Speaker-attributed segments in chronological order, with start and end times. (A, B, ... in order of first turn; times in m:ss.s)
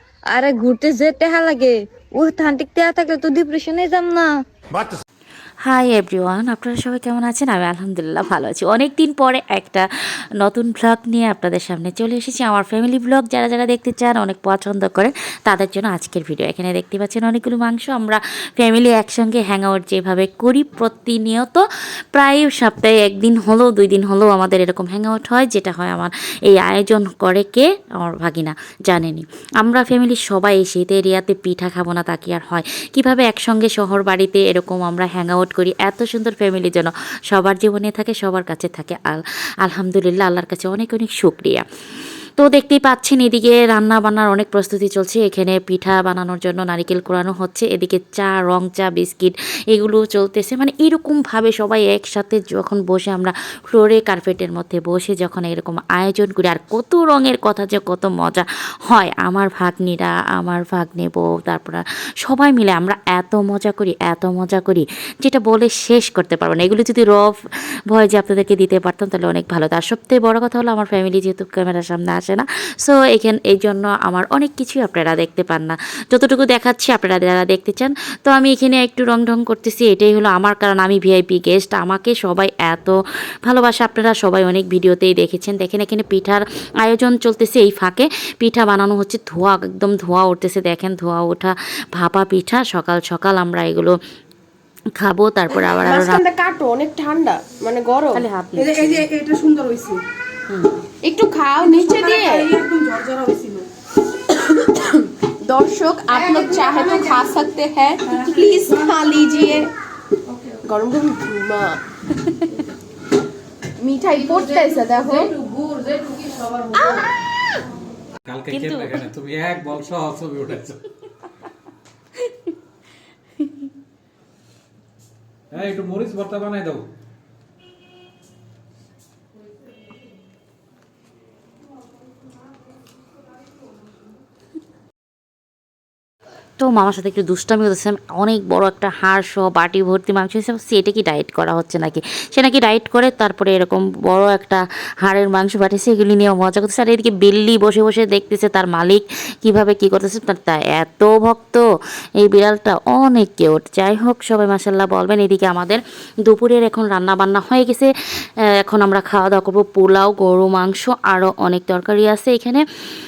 0:00.3-0:04.3 A
0:05.6-0:09.9 B
0:10.4-0:21.6 B
0:22.2-0:41.6 B
0:42.4-1:07.3 B
1:07.9-1:23.0 B
1:23.4-1:34.0 B
1:35.0-1:36.2 B
1:35.6-1:38.2 C
1:38.1-1:39.1 B
1:38.6-1:40.0 D
1:41.0-1:42.6 C
1:41.6-1:43.6 D
1:45.4-1:49.7 C
1:50.6-1:51.8 C
1:52.2-1:52.6 B
1:53.8-1:55.3 C
1:56.2-1:56.5 D
1:56.8-1:57.0 C
1:58.3-2:00.8 E
1:58.5-1:59.0 B
2:05.5-2:06.8 E
2:16.6-2:31.6 B
2:32.2-2:37.9 B
2:38.6-2:42.6 B